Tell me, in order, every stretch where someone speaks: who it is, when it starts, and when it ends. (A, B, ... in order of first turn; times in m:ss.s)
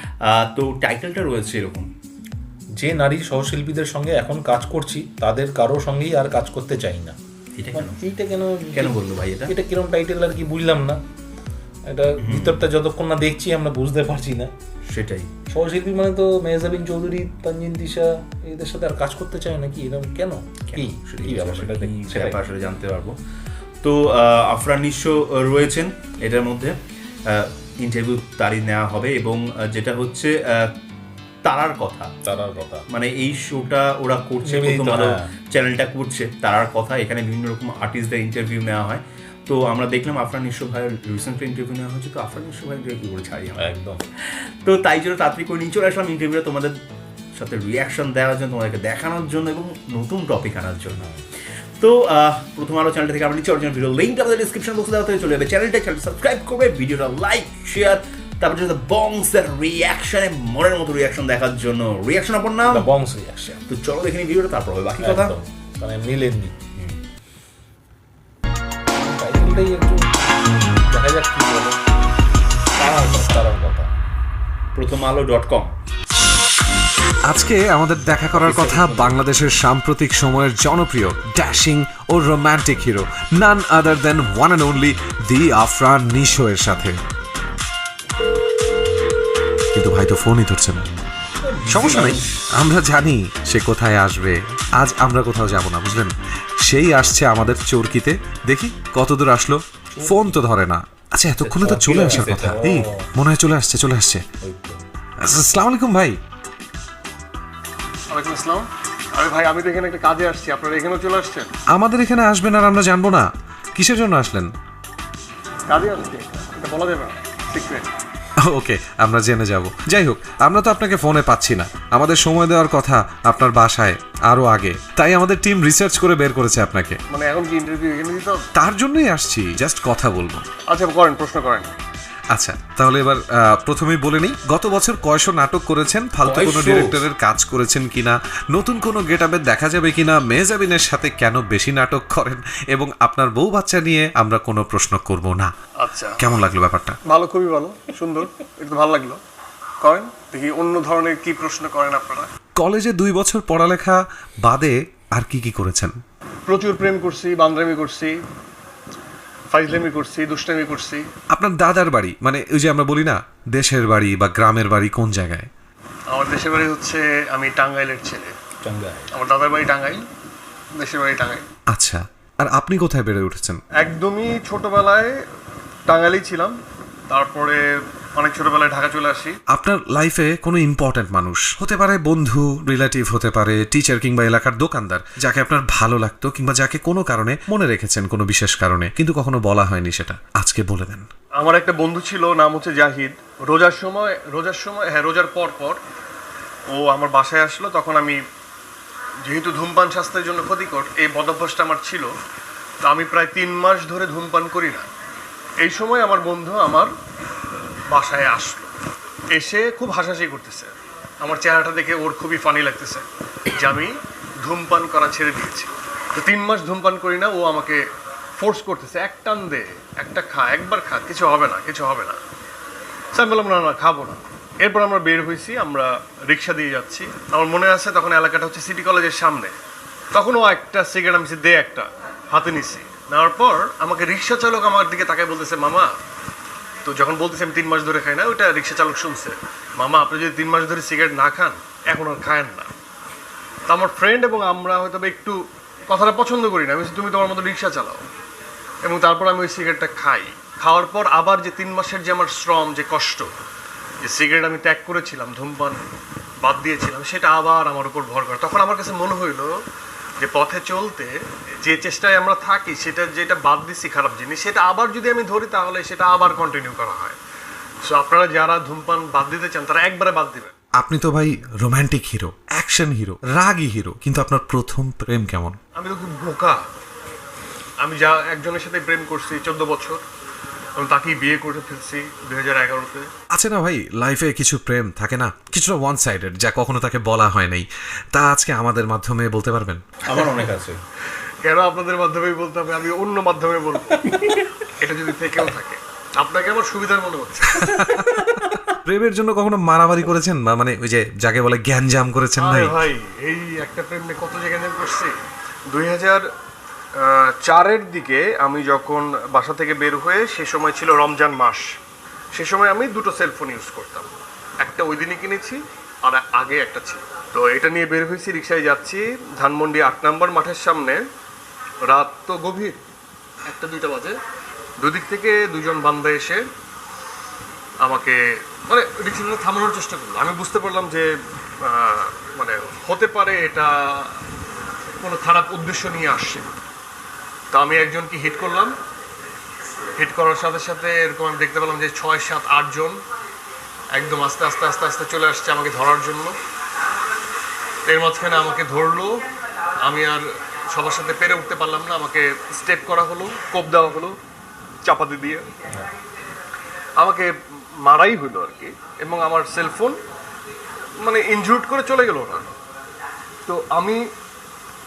0:00.2-0:01.9 A
0:02.8-0:07.2 B
0:07.6-0:08.0 A
0:07.7-0:08.9 B
0:08.7-0:09.5 A
0:09.5-0:11.0 B
0:11.9-0:14.5 B
0:12.2-0:12.6 A
0:14.9-0:15.3 A
0:15.5-0:22.4 B
0:20.7-0:23.2 A
0:23.8-0:26.8 A
0:27.3-0:30.7 A
0:31.4-0:32.1 A
0:32.2-0:32.8 B
0:32.9-0:43.6 A
0:34.4-0:35.3 B
0:43.6-0:44.0 B
0:44.6-0:46.8 A
0:47.4-0:51.0 A
0:51.8-1:02.9 A
1:02.7-1:03.6 B
1:03.7-1:05.4 A
1:05.0-1:06.6 B
1:09.0-1:10.1 B
1:10.8-1:11.8 B
1:12.8-1:13.9 B
1:14.8-1:15.7 A
1:17.3-1:27.0 C
1:18.4-1:19.2 A
1:29.7-1:30.8 C
1:31.4-1:32.4 A
1:31.7-1:44.2 C
1:39.9-1:40.4 B
1:41.4-1:43.1 B
1:44.4-1:44.8 B
1:45.2-1:46.2 C
1:48.1-1:51.5 D
1:51.7-1:54.5 C
1:55.7-1:57.9 D
1:58.4-2:07.0 C
2:07.1-2:08.4 D
2:08.6-2:10.5 C
2:10.7-2:11.7 D
2:12.3-2:25.5 C
2:16.2-2:17.0 A
2:25.8-2:26.2 D
2:26.2-2:27.0 C
2:27.1-2:29.2 D
2:29.8-2:32.3 D
2:32.6-2:36.0 C
2:36.5-2:38.2 D
2:39.5-2:41.1 D
2:41.3-2:45.5 C
2:46.1-2:48.4 D
2:48.6-2:49.1 A
2:49.1-2:50.1 D
2:50.8-2:51.5 D
2:51.7-2:53.6 C
2:53.8-2:55.2 D
2:55.9-2:56.6 D
2:57.1-2:59.4 D
2:59.5-3:11.1 C
3:11.4-3:15.8 D
3:16.7-3:18.2 D
3:19.2-3:22.1 D
3:22.8-3:24.9 D
3:25.6-3:26.9 D
3:27.9-3:28.7 D
3:29.3-3:37.8 D
3:38.4-3:42.2 D
3:43.2-3:49.5 D
3:50.1-3:55.9 D
3:56.8-4:02.8 D
4:03.7-4:08.0 D
4:08.8-4:13.3 D
4:14.0-4:15.9 D
4:16.4-4:19.6 D
4:20.2-4:27.2 D
4:27.8-4:30.5 D
4:30.8-4:35.6 C
4:35.8-4:36.6 D
4:37.8-4:40.0 D
4:40.8-4:43.1 D
4:43.3-4:49.8 C
4:50.0-4:50.8 A
4:51.4-4:54.2 D
4:54.1-4:54.4 A
4:54.8-4:57.6 D
4:57.5-4:58.2 C
4:57.7-4:58.6 A
4:58.8-5:02.8 C
5:02.4-5:05.2 D
5:05.7-5:06.3 D
5:07.0-5:11.8 D
5:12.3-5:21.0 D
5:21.8-5:22.8 D
5:23.5-5:24.2 D
5:24.8-5:26.5 D
5:27.8-5:34.2 D
5:35.0-5:36.5 D
5:37.5-5:38.8 D
5:40.0-5:43.0 D
5:43.9-5:46.4 D
5:47.9-5:49.2 D
5:49.8-5:54.2 D
5:54.8-5:55.4 D
5:57.0-6:00.0 D
6:01.0-6:02.5 D
6:03.5-6:04.1 D